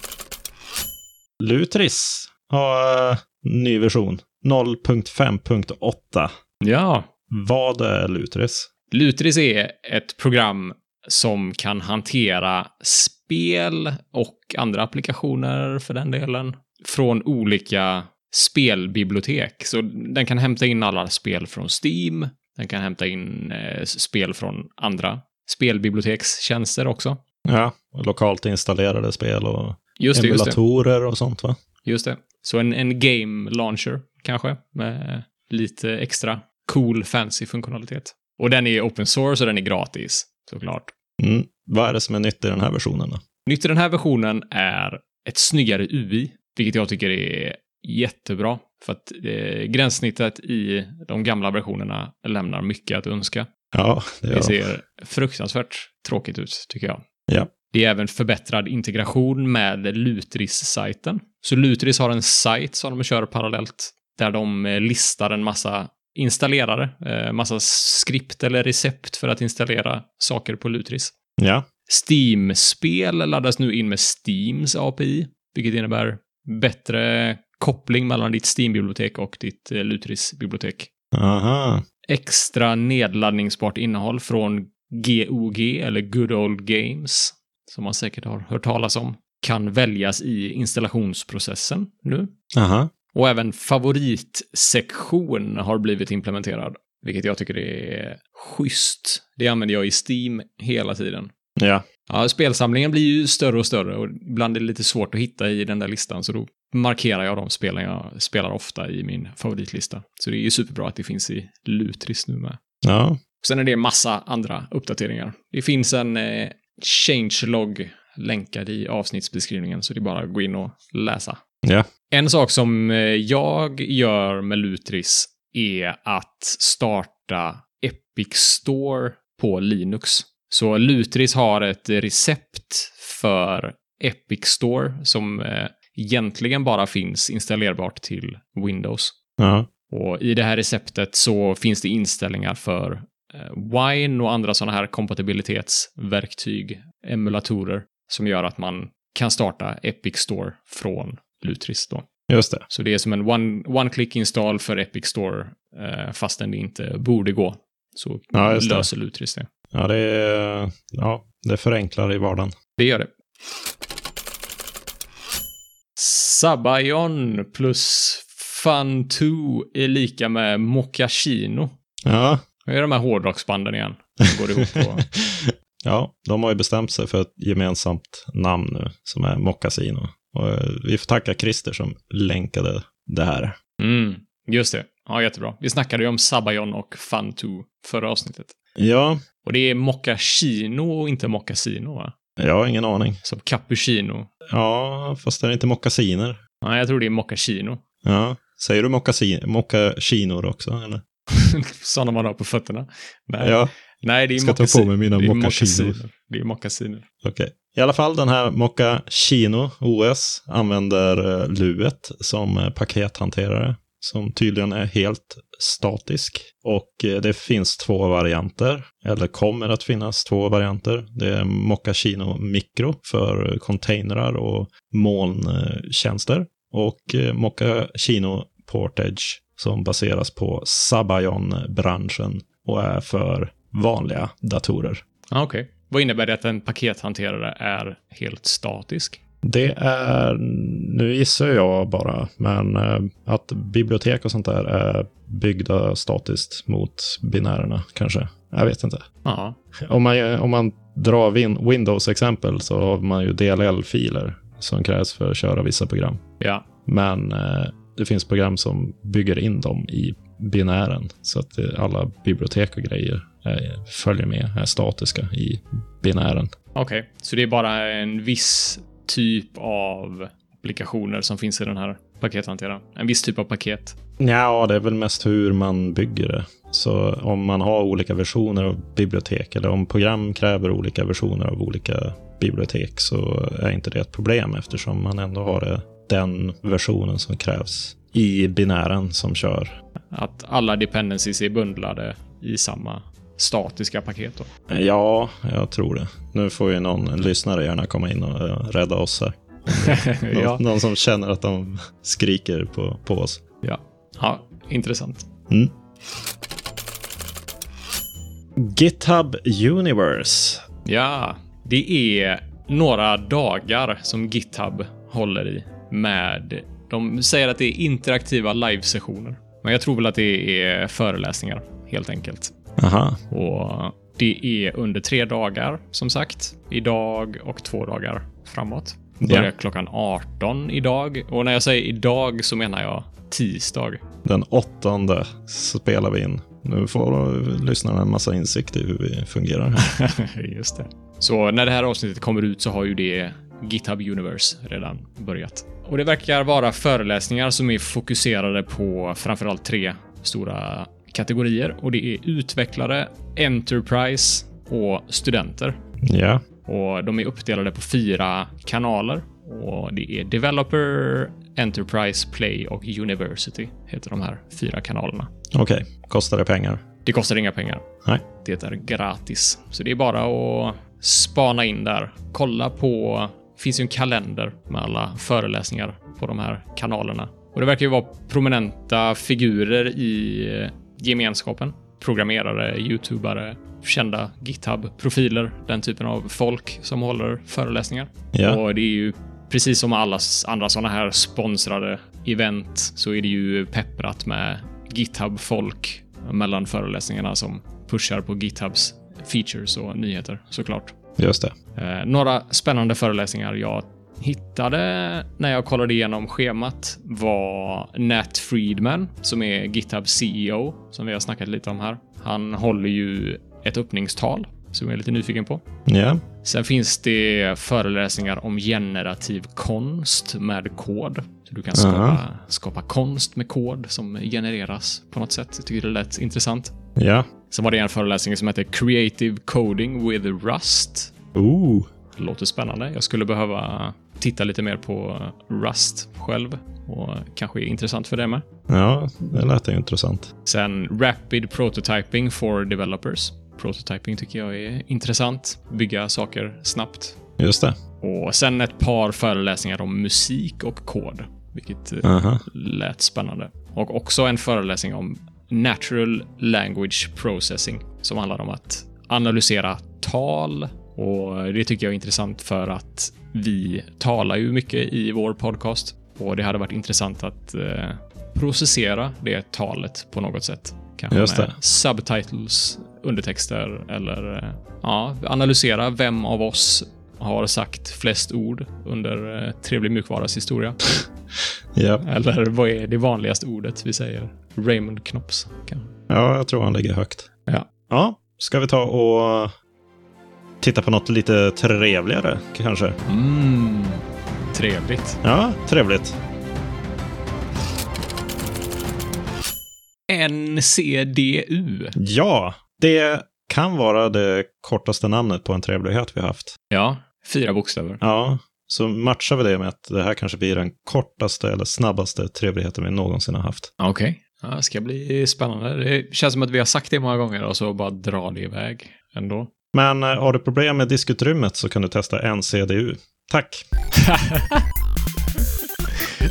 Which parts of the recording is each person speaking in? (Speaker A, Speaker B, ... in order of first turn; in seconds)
Speaker A: 1.4-6.3, 7.3-8.7, 27.4-31.6, 41.2-43.2, 53.7-54.6, 71.4-71.7, 81.1-81.8, 92.5-92.9, 101.6-101.8, 112.8-113.2, 139.4-139.7, 152.3-152.7, 158.3-158.9, 159.7-162.5, 172.1-172.4, 174.7-183.6, 188.8-189.2, 192.4-193.2, 194.5-196.4, 198.0-201.0, 203.4-203.7, 204.3-206.0, 207.2-235.0, 239.4-249.0, 249.8-256.2, 256.9-266.5, 274.2-289.7, 294.7-303.4, 308.6-310.6, 322.8-323.2, 329.2-329.5, 334.2-339.9, 356.0-356.4, 365.5-366.8, 388.3-388.6, 401.2-401.5, 415.9-416.2, 421.7-422.2, 426.9-427.2, 431.3-431.9, 438.7-440.3, 447.4-447.8, 452.0-452.4, 471.1-471.5, 481.7-482.0, 486.1-487.3, 487.9-489.5, 490.6-493.0, 495.2-496.2, 501.9-506.5, 508.0-513.7, 519.7-523.6
Speaker B: 6.6-7.1, 8.9-27.2, 30.0-30.6, 31.8-40.9, 43.5-53.5, 54.3-57.0, 57.7-71.1, 71.9-80.9, 82.1-92.3, 93.1-101.3, 102.1-112.6, 113.4-121.4, 122.1-139.2, 139.9-152.1, 152.7-159.5, 162.8-163.1, 166.0-171.7, 172.6-175.0, 183.8-188.5, 189.4-192.1, 193.2-194.3, 196.6-197.8, 201.3-207.0, 235.3-239.2, 249.2-249.6, 256.4-256.6, 266.7-274.0, 290.1-294.5, 299.7-300.6, 303.6-305.3, 310.8-322.5, 323.3-334.0, 339.8-355.8, 356.6-365.3, 367.0-367.8, 368.3-400.9, 401.8-415.6, 416.4-426.7, 427.5-431.1, 432.1-438.4, 440.4-447.2, 448.0-480.8, 482.0-485.9, 493.1-495.2, 500.1-501.9, 506.7-508.0, 513.8-519.5, 524.0-524.6